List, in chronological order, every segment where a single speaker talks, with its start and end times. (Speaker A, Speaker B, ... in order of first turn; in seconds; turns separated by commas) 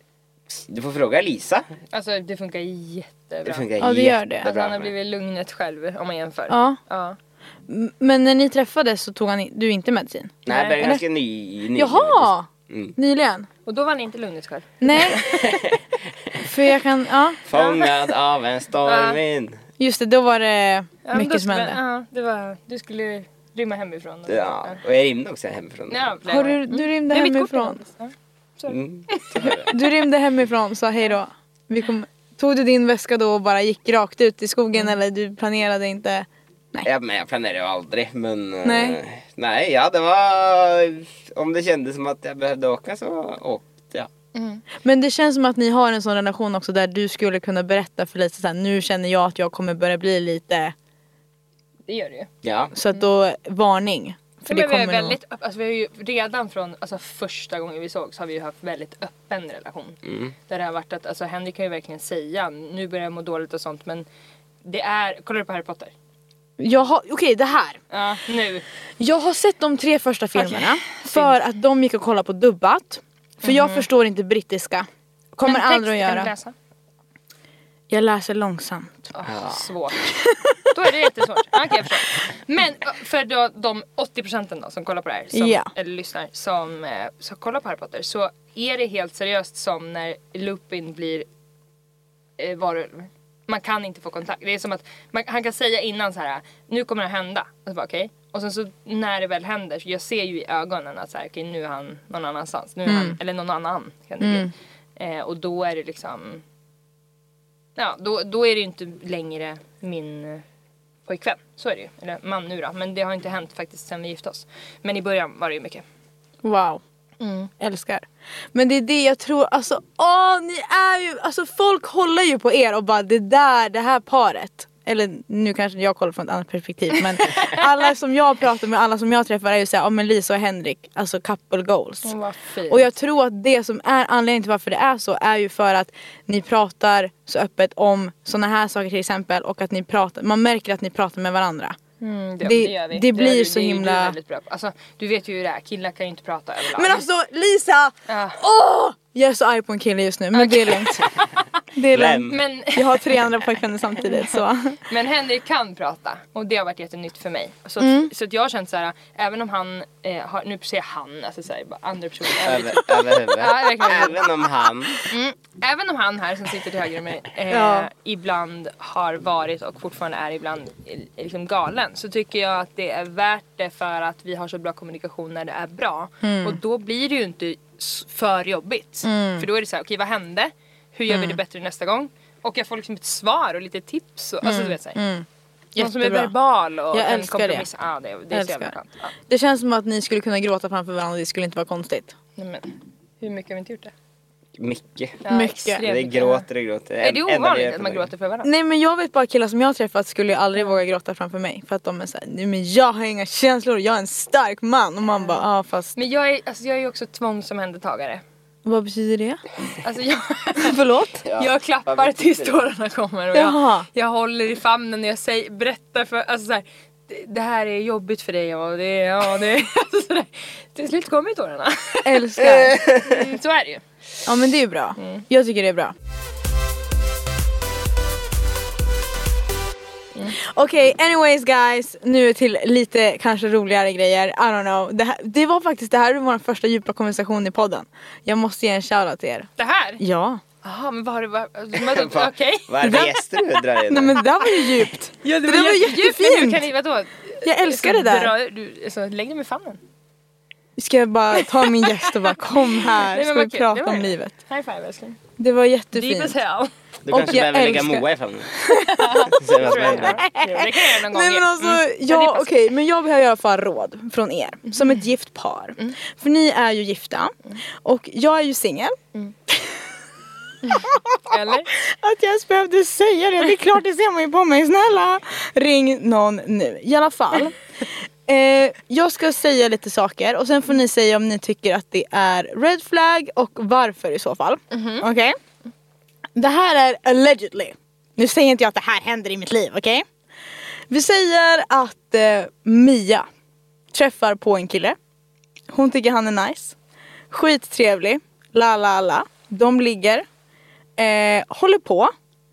Speaker A: 0.5-1.7, Speaker B: 1.9-3.7, Speaker A: 3.5-4.9, Speaker C: 3.8-4.4, Speaker B: 4.4-7.2, Speaker C: 6.5-6.8, Speaker C: 7.7-11.0, Speaker A: 10.5-13.0, Speaker B: 10.5-10.8, Speaker C: 11.8-13.5, Speaker B: 13.7-15.4, Speaker C: 14.8-15.2, Speaker A: 15.3-15.8, Speaker C: 16.4-17.4, Speaker A: 17.5-19.6, Speaker B: 17.5-18.1, Speaker B: 18.9-19.2, Speaker C: 19.8-21.8, Speaker B: 21.1-24.8, Speaker A: 24.3-26.1, Speaker B: 25.9-29.9, Speaker C: 26.3-27.8, Speaker A: 28.7-29.7, Speaker C: 29.4-36.9, Speaker A: 36.8-44.1, Speaker C: 38.6-39.0, Speaker B: 44.3-44.6, Speaker C: 44.8-50.7, Speaker B: 51.9-52.3, Speaker A: 52.4-52.7, Speaker C: 52.7-55.2, Speaker B: 54.5-64.1, Speaker A: 60.0-60.3, Speaker B: 64.6-65.9, Speaker C: 66.6-67.8, Speaker B: 67.9-68.7, Speaker C: 69.0-76.3, Speaker B: 70.4-71.4, Speaker B: 73.4-73.9, Speaker B: 75.5-76.5, Speaker C: 77.9-79.1, Speaker B: 79.1-80.1, Speaker A: 79.3-79.6, Speaker C: 80.1-80.7, Speaker B: 80.7-91.3, Speaker C: 85.3-85.7, Speaker B: 92.4-106.4, Speaker C: 102.9-103.2, Speaker C: 104.2-104.5, Speaker B: 107.8-110.4, Speaker B: 111.1-115.8, Speaker C: 116.4-116.8, Speaker B: 117.2-117.5, Speaker C: 117.6-132.1, Speaker B: 132.0-132.9, Speaker C: 132.7-141.8, Speaker B: 142.0-147.0, Speaker C: 142.4-144.2, Speaker C: 146.7-151.0, Speaker B: 148.1-148.4, Speaker B: 150.3-151.4, Speaker C: 151.7-154.8, Speaker A: 151.9-152.4, Speaker B: 152.3-153.1, Speaker B: 154.8-164.3, Speaker C: 157.8-158.1, Speaker A: 162.4-165.0, Speaker B: 165.0-185.0, Speaker C: 167.5-167.9, Speaker C: 176.2-176.6, Speaker C: 179.0-179.5, Speaker C: 181.1-181.4, Speaker C: 184.4-186.3, Speaker B: 185.8-189.1, Speaker C: 186.9-187.7, Speaker C: 188.3-188.7, Speaker C: 189.3-192.1, Speaker B: 192.4-193.9, Speaker A: 194.6-195.2, Speaker B: 195.2-196.5, Speaker C: 195.3-195.8, Speaker A: 195.8-198.1, Speaker B: 197.0-198.5, Speaker C: 198.4-205.9, Speaker B: 205.9-208.2, Speaker C: 208.7-209.4, Speaker B: 209.8-210.8, Speaker C: 210.6-211.2, Speaker A: 211.2-212.6, Speaker B: 211.3-223.8, Speaker C: 213.3-213.9, Speaker C: 222.1-222.8, Speaker A: 222.4-223.2, Speaker C: 224.3-225.9, Speaker B: 225.0-225.2, Speaker C: 230.4-239.5, Speaker B: 239.6-240.0, Speaker C: 240.0-240.4, Speaker B: 240.6-243.0, Speaker A: 241.8-244.2, Speaker C: 242.8-243.2, Speaker C: 243.9-246.7, Speaker B: 245.2-249.8, Speaker C: 247.4-248.3, Speaker C: 250.8-254.3, Speaker B: 251.8-255.2, Speaker C: 255.4-256.4, Speaker B: 255.9-256.7, Speaker A: 257.1-258.6, Speaker C: 257.1-258.1, Speaker C: 258.6-269.0, Speaker B: 258.8-262.6, Speaker A: 259.3-260.2, Speaker B: 264.7-265.0, Speaker C: 269.5-269.8, Speaker B: 270.6-271.7, Speaker C: 270.6-285.4, Speaker B: 284.7-285.1, Speaker C: 286.4-290.1, Speaker C: 290.9-293.3, Speaker C: 293.9-295.0, Speaker C: 295.7-296.8, Speaker C: 297.3-300.2, Speaker C: 301.0-302.1